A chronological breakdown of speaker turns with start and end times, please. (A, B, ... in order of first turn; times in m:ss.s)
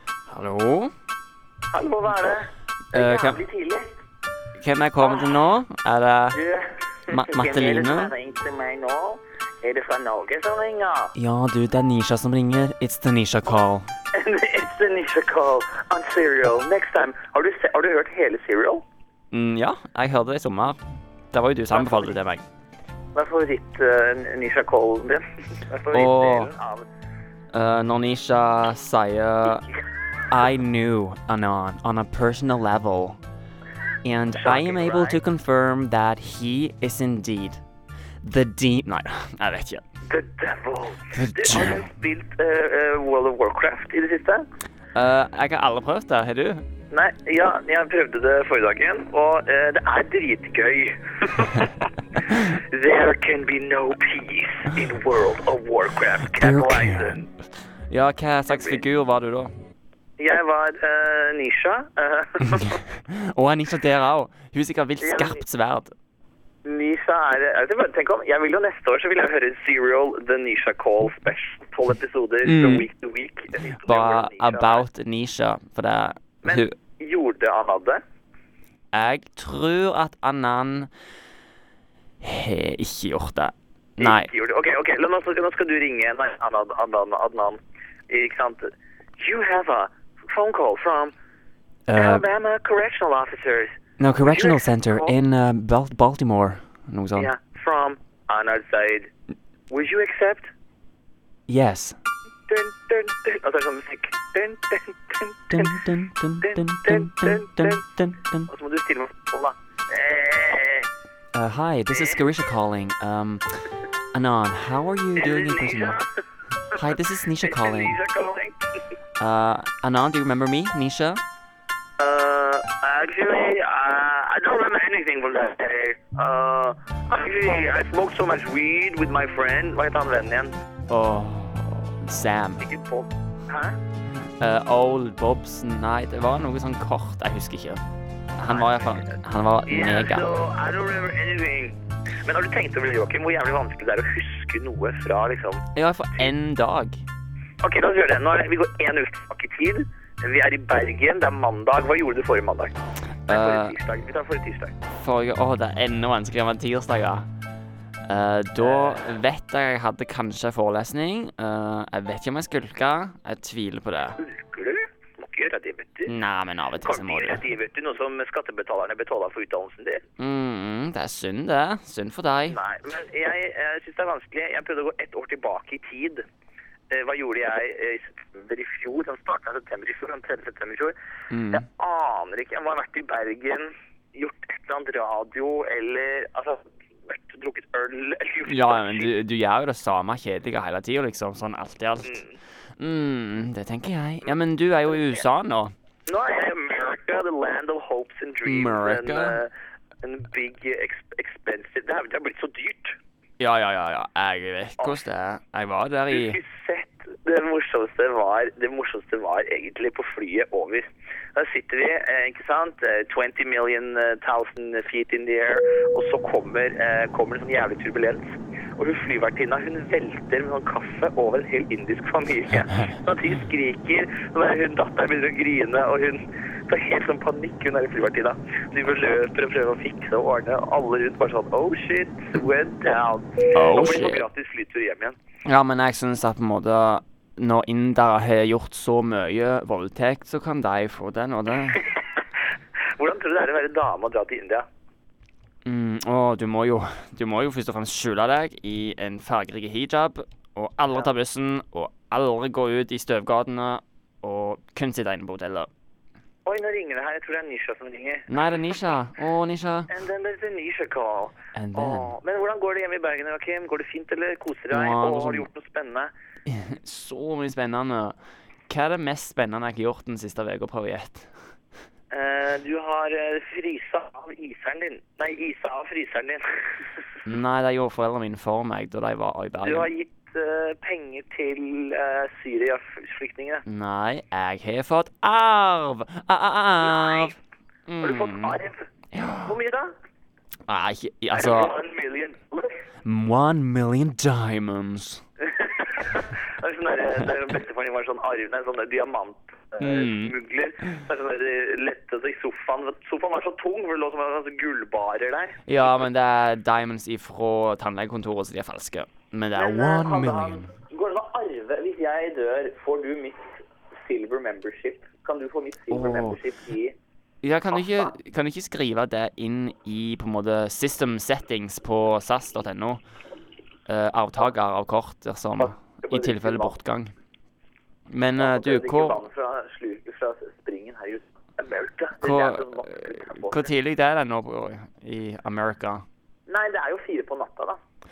0:00.3-0:00.9 A
0:01.7-0:04.0 B
0:02.9-0:03.4 A
0:04.6-0:06.4 A
0:05.0-0:05.3 B
0:06.3-0:11.1 B
0:07.1-0:08.1 A
0:11.2-0:13.9 A
0:14.1-0:18.8 B
0:19.3-0:20.8 A
0:21.3-0:22.4 A
0:21.7-0:22.1 B
0:23.1-0:26.8 B
0:25.9-0:26.5 A
0:27.5-0:29.7 A
0:30.3-0:33.2 A
0:34.0-0:37.6 A
0:34.3-0:35.2 B
0:38.2-0:39.8 A
0:40.1-0:44.4 B
0:41.1-0:41.8 A
0:44.9-0:46.6 A
0:46.9-0:57.3 B
0:56.4-0:57.2 A
0:57.9-0:59.5 A
0:58.5-0:58.8 B
1:00.2-1:02.8 B
1:03.1-1:05.9 A
1:05.0-1:05.4 B
1:06.6-1:14.8 B
1:12.4-1:12.9 A
1:13.8-1:16.7 A
1:16.4-1:18.0 B
1:18.9-1:20.9 A
1:22.2-1:24.3 A
1:24.0-1:31.1 B
1:31.9-1:32.2 A
1:31.9-1:35.1 B
1:34.0-1:37.3 A
1:37.2-1:39.1 B
1:39.7-1:40.5 B
1:41.5-1:42.0 A
1:42.5-1:45.9 B
1:45.5-1:48.5 A
1:46.4-1:47.8 B
1:48.5-1:50.9 B
1:51.3-1:53.4 A
1:51.9-1:52.2 B
1:54.1-1:56.0 A
1:55.2-1:56.0 B
1:56.7-1:58.0 A
1:56.9-1:58.7 B
1:59.2-2:01.2 A
2:02.0-2:10.5 B
2:10.9-2:12.6 A
2:12.6-2:13.8 B
2:14.4-2:17.8 A
2:18.4-2:20.3 A
2:18.5-2:25.6 B
2:25.7-2:27.0 A
2:27.6-2:32.8 B
2:33.3-2:33.8 A
2:33.3-2:34.8 B
2:34.9-2:37.3 A
2:38.1-2:44.2 A
2:38.6-2:39.0 B
2:44.2-2:46.1 B
2:46.0-2:47.4 A
2:46.8-2:50.0 B
2:50.2-2:52.6 A
2:52.5-2:56.2 B
2:56.9-3:00.9 B
3:01.3-3:01.6 A
3:01.5-3:09.1 B
3:08.4-3:12.2 A
3:12.0-3:12.4 B
3:12.8-3:15.7 A
3:14.9-3:15.2 B
3:16.1-3:19.5 B
3:18.4-3:19.4 A
3:20.0-3:23.0 B
3:23.4-3:26.4 A
3:26.1-3:55.2 B
3:53.5-3:54.2 A
3:55.4-4:01.8 A
4:01.7-4:02.0 B
4:03.0-4:04.7 B
4:05.6-4:15.7 A
4:16.4-4:18.3 B
4:18.3-4:19.9 A
4:19.9-4:26.1 B
4:21.5-4:22.2 A
4:24.7-4:25.5 A
4:26.4-4:28.2 A
4:28.7-4:31.3 A
4:32.1-4:36.4 B
4:37.3-4:39.9 A
4:39.6-4:43.6 B
4:43.6-4:47.3 A
4:46.8-4:47.4 B
4:47.9-4:48.6 A
4:48.0-4:48.8 B
4:49.1-4:49.6 A
4:49.4-4:49.9 B
4:50.7-4:51.7 A
4:51.3-4:52.8 B
4:53.0-4:55.2 A
4:55.4-5:05.6 B
4:59.8-5:00.3 A
5:05.7-5:10.7 A
5:09.5-5:13.5 B
5:14.0-5:16.9 B
5:15.9-5:16.4 A
5:17.4-5:23.0 A
5:17.7-5:18.1 B
5:23.9-5:27.1 A
5:25.6-5:26.7 B
5:28.1-5:29.2 A
5:28.4-5:33.7 B
5:32.2-5:36.0 A
5:36.5-5:37.8 B